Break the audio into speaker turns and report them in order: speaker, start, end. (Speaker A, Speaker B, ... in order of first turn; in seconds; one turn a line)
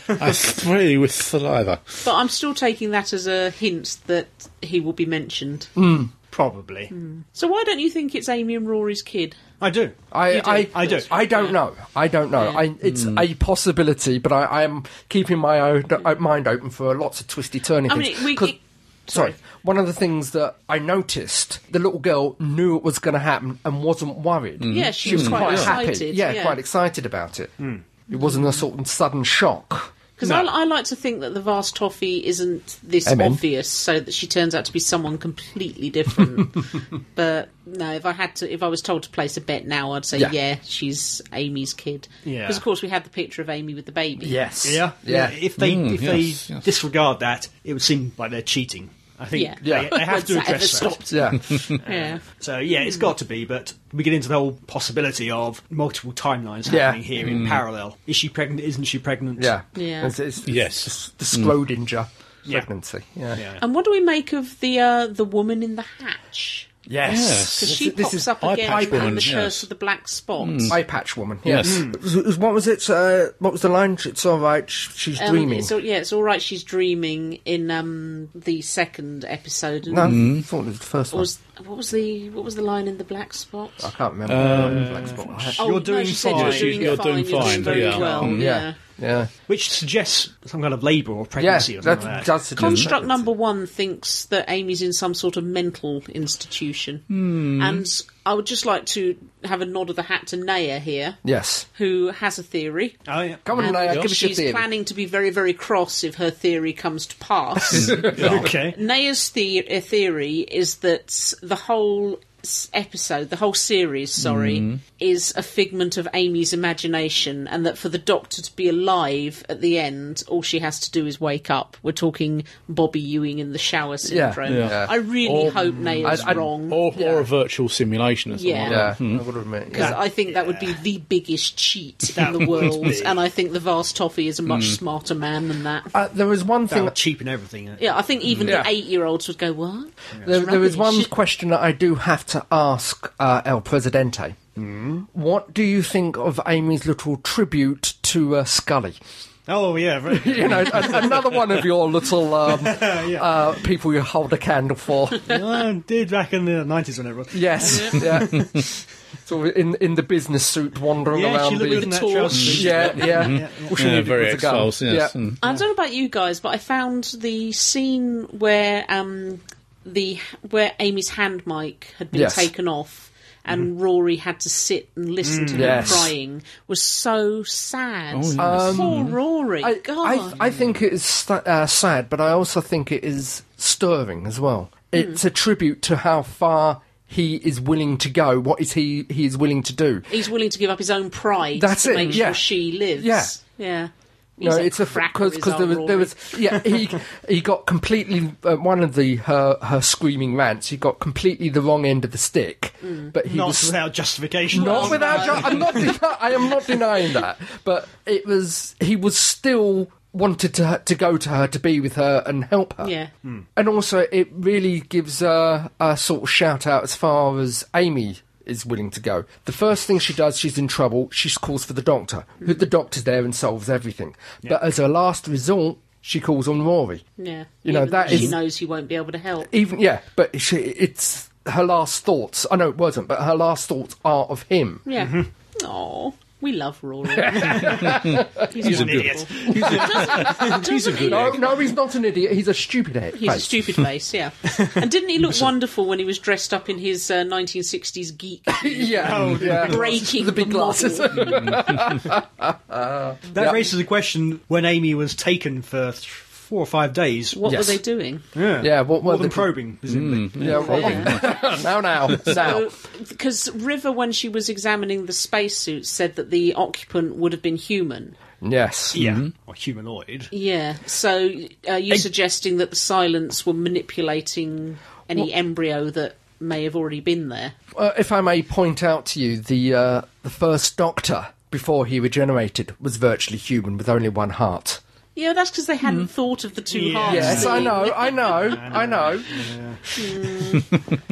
Speaker A: 0.1-2.0
Speaker B: 2.0-5.7
Speaker C: 5.8-6.1
Speaker D: 6.3-6.9
Speaker B: 6.9-9.4
Speaker D: 9.6-10.0
Speaker C: 10.1-18.5
Speaker B: 10.3-11.5
Speaker D: 10.5-11.5
Speaker B: 12.4-12.7
Speaker A: 12.9-13.2
Speaker B: 17.9-19.4
Speaker C: 19.1-27.5
Speaker A: 24.6-25.8
Speaker B: 24.7-26.6
Speaker C: 28.1-29.9
Speaker B: 28.1-28.6
Speaker B: 30.2-44.4
Speaker C: 33.0-33.4
Speaker D: 42.2-42.6
Speaker C: 44.2-45.4
Speaker D: 44.6-51.0
Speaker A: 45.6-46.6
Speaker B: 49.3-52.2
Speaker C: 49.6-50.2
Speaker C: 51.1-51.6
Speaker D: 51.8-59.6
Speaker B: 52.8-53.1
Speaker C: 56.6-57.3
Speaker A: 57.2-57.6
Speaker C: 59.4-63.4
Speaker B: 59.7-60.1
Speaker A: 60.4-61.5
Speaker D: 63.3-63.6
Speaker B: 63.6-66.7
Speaker C: 66.9-69.3
Speaker A: 67.0-67.7
Speaker B: 67.5-70.8
Speaker A: 68.4-69.7
Speaker A: 70.4-70.8
Speaker C: 70.7-75.7
Speaker A: 71.4-71.8
Speaker D: 71.6-72.0
Speaker B: 75.2-80.2
Speaker C: 79.9-81.3
Speaker A: 80.0-80.4
Speaker B: 81.1-83.9
Speaker C: 83.8-85.9
Speaker A: 84.3-85.2
Speaker D: 84.4-88.3
Speaker B: 85.6-88.8
Speaker A: 86.2-88.4
Speaker C: 88.2-89.3
Speaker D: 89.5-92.3
Speaker C: 91.4-93.2
Speaker B: 92.5-101.2
Speaker A: 92.6-92.9
Speaker A: 97.1-97.8
Speaker C: 101.2-101.7
Speaker B: 101.7-103.0
Speaker D: 103.0-103.5
Speaker C: 103.4-104.7
Speaker B: 103.5-126.9
Speaker C: 107.7-108.4
Speaker A: 107.7-108.5
Speaker D: 108.1-108.8
Speaker A: 114.2-114.8
Speaker C: 124.0-125.0
Speaker A: 124.5-129.2
Speaker C: 126.0-127.2
Speaker B: 128.3-128.9
Speaker C: 128.6-130.0
Speaker B: 129.7-135.9
Speaker D: 129.7-130.8
Speaker D: 132.1-133.2
Speaker A: 134.5-134.8
Speaker C: 135.9-136.9
Speaker D: 136.7-137.9
Speaker B: 137.8-141.1
Speaker C: 138.4-138.7
Speaker C: 140.2-144.4
Speaker D: 144.6-145.1
Speaker C: 145.1-149.0
Speaker D: 149.4-151.7
Speaker C: 150.1-155.3
Speaker D: 152.4-153.4
Speaker D: 155.2-158.8
Speaker C: 157.3-158.7
Speaker B: 157.6-158.0
Speaker C: 159.2-165.1
Speaker D: 161.1-163.7
Speaker B: 161.6-163.2
Speaker A: 162.3-165.4
Speaker B: 165.4-180.4
Speaker C: 172.1-172.5
Speaker D: 175.2-176.1
Speaker C: 175.5-176.1
Speaker A: 178.1-179.2
Speaker C: 178.4-179.1
Speaker C: 179.6-190.1
Speaker B: 184.9-185.2
Speaker B: 190.1-196.4
Speaker C: 191.5-193.3
Speaker C: 194.4-203.8
Speaker B: 202.8-203.1
Speaker D: 203.2-205.9
Speaker C: 204.5-212.9
Speaker B: 204.5-205.9
Speaker B: 212.8-213.1
Speaker C: 213.6-227.0
Speaker B: 227.2-229.5
Speaker C: 227.6-228.4
Speaker C: 229.4-234.8
Speaker B: 234.8-241.5
Speaker C: 237.1-238.4
Speaker D: 237.4-238.0
Speaker A: 237.8-241.4
Speaker D: 238.6-241.2
Speaker C: 239.5-243.8
Speaker B: 243.1-251.5
Speaker C: 248.6-253.7
Speaker D: 249.0-250.1
Speaker A: 251.2-251.8
Speaker D: 253.3-257.4
Speaker B: 257.3-258.2
Speaker C: 257.4-257.8
Speaker D: 258.3-261.1
Speaker C: 258.6-259.5
Speaker A: 259.9-261.3
Speaker C: 260.4-262.7
Speaker B: 260.5-261.4
Speaker B: 262.2-268.1
Speaker C: 268.4-269.0
Speaker D: 268.9-270.3
Speaker A: 268.9-269.3
Speaker B: 270.3-277.5
Speaker C: 277.7-284.8
Speaker B: 285.1-288.6
Speaker D: 286.7-289.8
Speaker C: 287.0-289.5
Speaker B: 289.9-290.8